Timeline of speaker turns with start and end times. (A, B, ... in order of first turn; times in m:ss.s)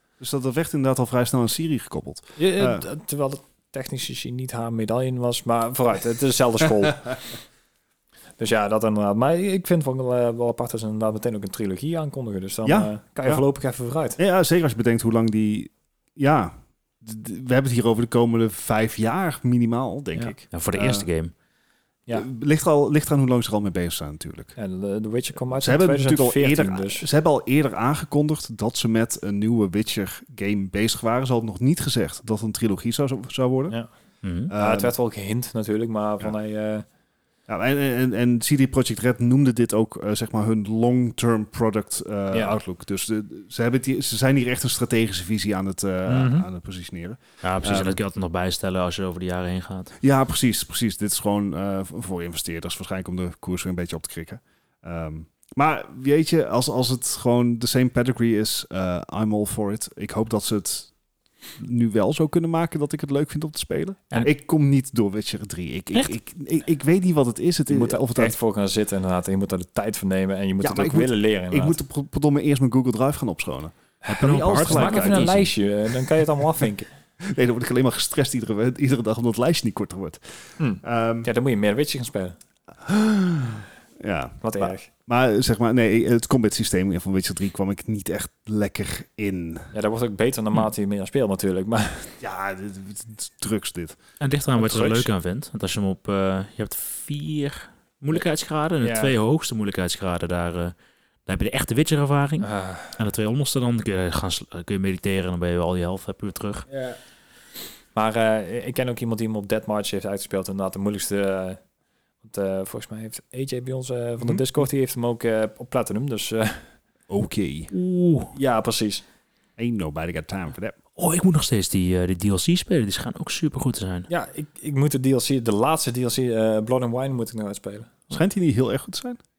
0:00.2-0:02.8 A
0:02.4-0:07.2 B
0:08.4-0:14.2 B
0:12.6-0:13.4 A
0:14.2-0:21.1 A
0:20.5-0:21.3 C
0:22.1-0:24.5 A
0:24.6-0:27.1 B
0:25.6-0:33.8 A
0:34.2-0:34.5 C
0:34.5-0:34.9 A
0:34.6-0:36.9 B
0:37.5-0:48.0 A
0:42.3-0:42.6 B
0:46.1-0:46.5 B
0:47.4-0:49.9 C
0:50.0-1:00.9 A
1:01.6-1:08.4 A
1:07.7-1:11.8 B
1:10.6-1:15.4 A
1:14.1-1:15.5 C
1:14.1-1:16.9 B
1:17.2-1:20.2 A
1:20.6-1:22.4 B
1:20.8-1:21.3 A
1:22.8-1:29.7 A
1:24.4-1:24.9 B
1:29.7-1:32.1 B
1:32.2-1:34.0 A
1:34.2-1:40.8 C
1:34.6-1:35.1 B
1:38.8-1:39.1 B
1:41.3-1:46.7 C
1:42.4-1:43.0 B
1:46.7-1:47.0 B
1:48.0-1:51.6 B
1:52.2-1:56.7 B
1:57.1-1:57.7 A
1:57.7-1:58.3 C
1:58.3-1:59.0 B
1:59.6-2:00.8 A
2:01.0-2:04.1 C
2:04.1-2:07.9 B
2:08.1-2:09.2 A